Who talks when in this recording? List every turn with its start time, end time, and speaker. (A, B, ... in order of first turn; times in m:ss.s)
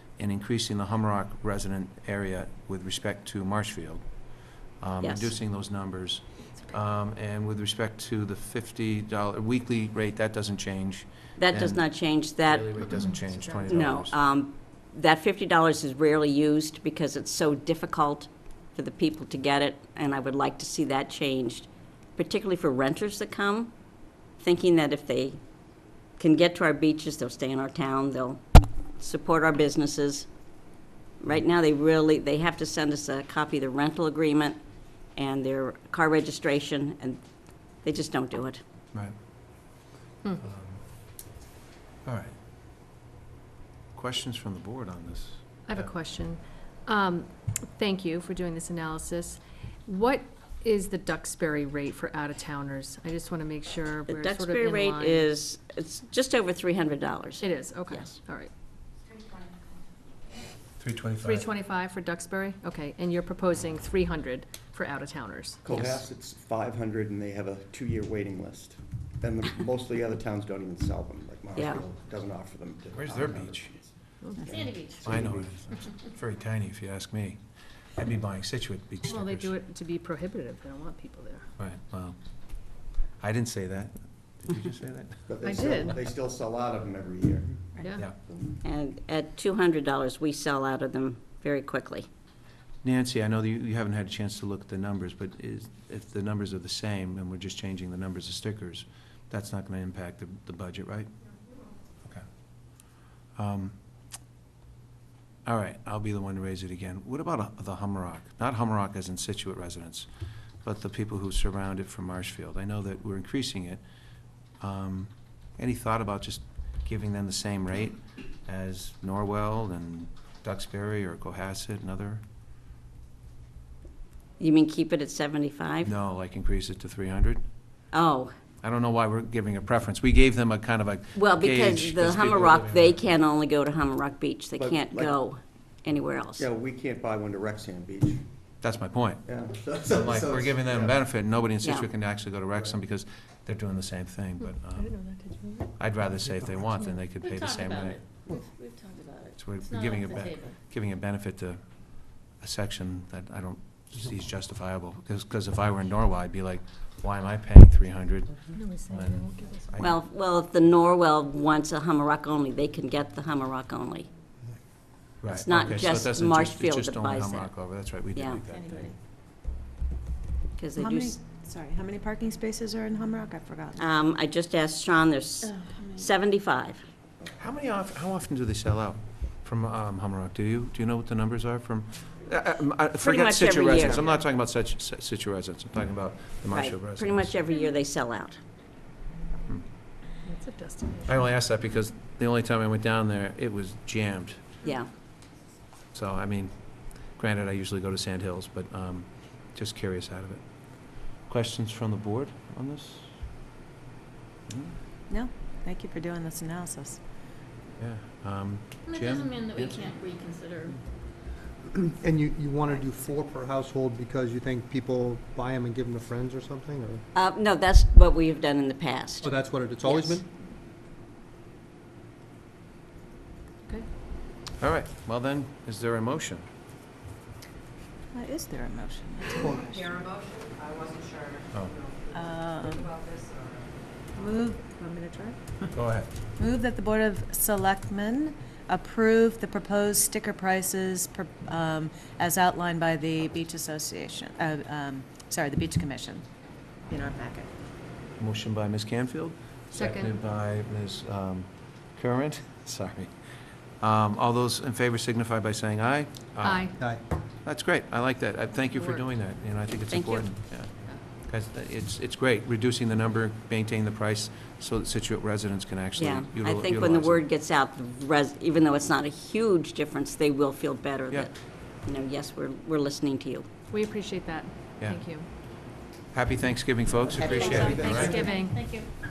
0:00.2-0:14.2 A
0:05.0-0:05.4 B
0:11.4-0:12.9 B
0:13.6-0:23.7 B
0:24.4-0:25.4 B
0:26.2-0:28.4 B
0:29.0-0:30.3 B
0:31.2-0:34.6 B
0:35.2-0:37.2 B
0:37.8-0:38.6 B
0:40.4-0:40.8 A
0:42.0-0:42.3 A
0:43.9-0:45.9 A
0:45.7-0:55.3 C
0:54.1-0:58.1 B
0:57.4-0:58.5 C
1:00.8-1:01.5 A
1:01.2-1:05.6 C
1:05.6-1:15.7 D
1:05.7-1:06.0 A
1:11.6-1:11.8 B
1:12.9-1:13.7 A
1:14.2-1:14.5 C
1:14.5-1:15.0 E
1:15.0-1:17.4 A
1:17.9-1:19.5 A
1:19.1-1:21.5 C
1:21.6-1:22.2 A
1:23.2-1:25.2 A
1:25.3-1:28.5 D
1:25.4-1:26.0 C
1:27.8-1:28.1 C
1:28.6-1:32.1 B
1:32.8-1:41.1 A
1:43.3-1:43.8 A
1:45.4-1:50.1 A
1:50.6-1:53.8 A
1:54.6-2:02.2 A
2:04.4-2:05.9 B
2:05.8-2:07.4 A
2:07.9-2:08.3 B
2:08.6-2:13.0 A
2:11.2-2:16.5 B
2:14.6-2:15.2 D
2:16.4-2:18.2 D
2:18.6-2:24.9 A
2:19.2-2:21.0 D
2:21.6-2:21.9 B
2:24.4-2:25.8 C
2:25.8-2:28.0 A
2:26.2-2:26.6 F
2:27.2-2:30.5 E
2:29.4-2:40.0 A
2:38.5-2:39.9 C
2:39.8-2:44.1 B
2:45.2-2:48.9 A
2:45.3-2:47.6 B
2:48.1-2:48.4 B
2:48.5-2:48.9 E
2:50.6-2:51.2 B
2:50.8-2:54.0 G
2:53.8-2:56.8 B
2:55.7-2:56.0 E
2:57.4-3:07.3 A
3:03.0-3:04.1 B
3:06.5-3:08.4 B
3:10.2-3:11.3 C
3:11.1-3:14.5 A
3:14.6-3:14.9 B
3:15.9-3:23.2 A
3:24.5-3:24.8 A
3:25.1-3:27.0 G
3:27.8-3:29.8 A
3:28.9-3:30.8 E
3:31.8-3:37.0 F
3:37.1-3:40.2 B
3:39.2-3:40.2 F
3:44.6-3:46.5 A
3:48.1-3:50.0 G
3:52.1-3:52.9 G
3:54.1-3:55.4 G
3:55.7-3:56.1 A
3:56.4-4:06.2 G
4:06.8-4:07.5 G
4:08.2-4:13.1 A
4:09.7-4:10.2 C
4:13.8-4:27.2 A
4:16.4-4:16.8 C
4:18.7-4:19.1 C
4:19.9-4:20.3 B
4:26.0-4:33.5 B
4:33.7-4:35.3 C
4:34.8-4:38.2 A
4:37.1-4:38.9 E
4:37.3-4:38.2 D
4:37.8-4:38.6 C